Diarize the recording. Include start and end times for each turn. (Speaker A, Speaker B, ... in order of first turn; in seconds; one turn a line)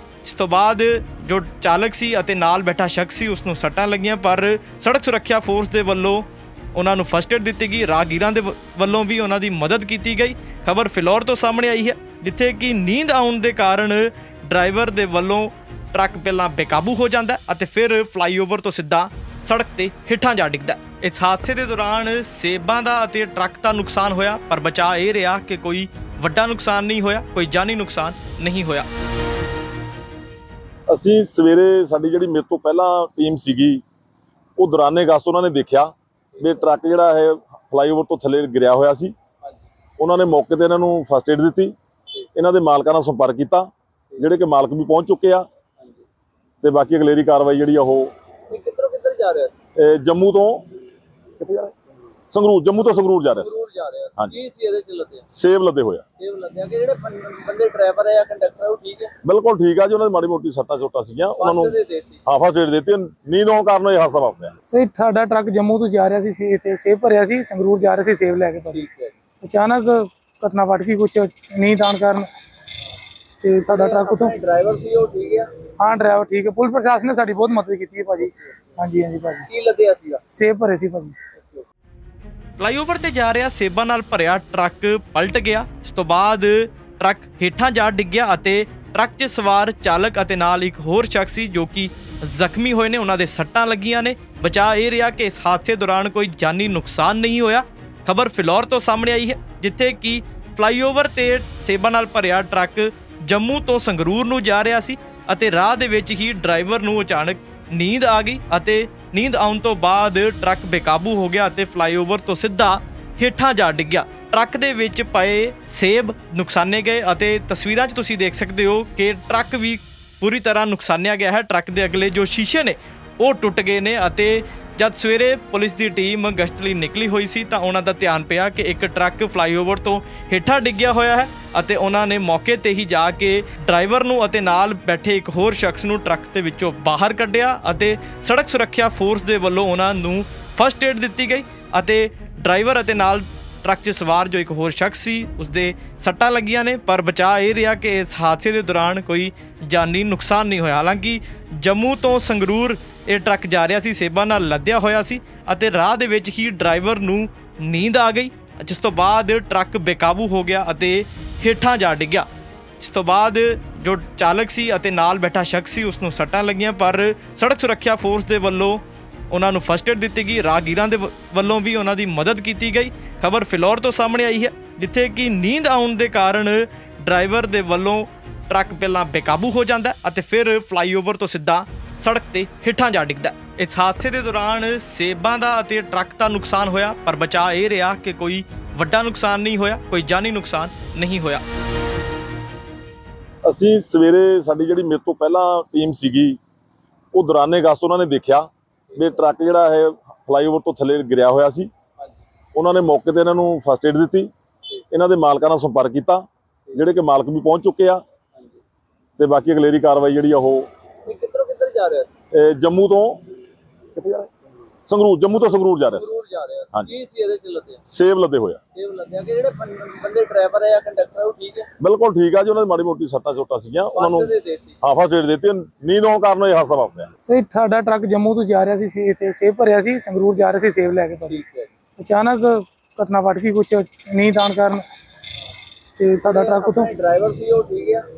Speaker A: 0.2-28.9
Speaker B: 30.9-33.8
Speaker B: 34.6-39.1
Speaker C: 36.3-36.6
Speaker B: 40.0-41.7
Speaker B: 42.3-45.5
Speaker C: 45.8-46.0
Speaker B: 46.6-48.1
Speaker C: 48.5-49.5
Speaker B: 49.8-50.6
Speaker B: 51.4-51.7
Speaker B: 52.3-53.5
Speaker C: 53.4-55.2
Speaker B: 55.3-56.0
Speaker C: 56.2-59.1
Speaker B: 59.2-61.7
Speaker C: 61.4-62.2
Speaker B: 62.2-64.5
Speaker D: 64.7-68.8
Speaker C: 68.7-69.1
Speaker D: 69.4-72.3
Speaker D: 73.4-74.3
Speaker C: 73.7-75.5
Speaker D: 75.8-79.5
Speaker C: 78.2-78.5
Speaker C: 79.5-80.2
Speaker D: 80.3-81.1
Speaker C: 81.4-81.6
Speaker A: 82.6-162.3
Speaker A: 162.8-191.4
Speaker B: 193.4-196.4
Speaker B: 197.1-201.7
Speaker C: 198.9-199.2
Speaker B: 202.5-204.3
Speaker B: 204.9-208.0
Speaker B: 209.2-210.7
Speaker C: 211.1-212.1
Speaker B: 212.3-213.2
Speaker B: 213.9-214.3
Speaker B: 214.9-216.1
Speaker C: 215.9-217.8
Speaker B: 217.8-218.6
Speaker C: 218.7-221.7
Speaker B: 221.8-224.3
Speaker C: 223.9-224.8
Speaker B: 224.8-227.1
Speaker D: 227.2-231.4
Speaker C: 231.2-231.7
Speaker D: 232.0-234.8
Speaker D: 236.0-236.9
Speaker C: 236.2-238.1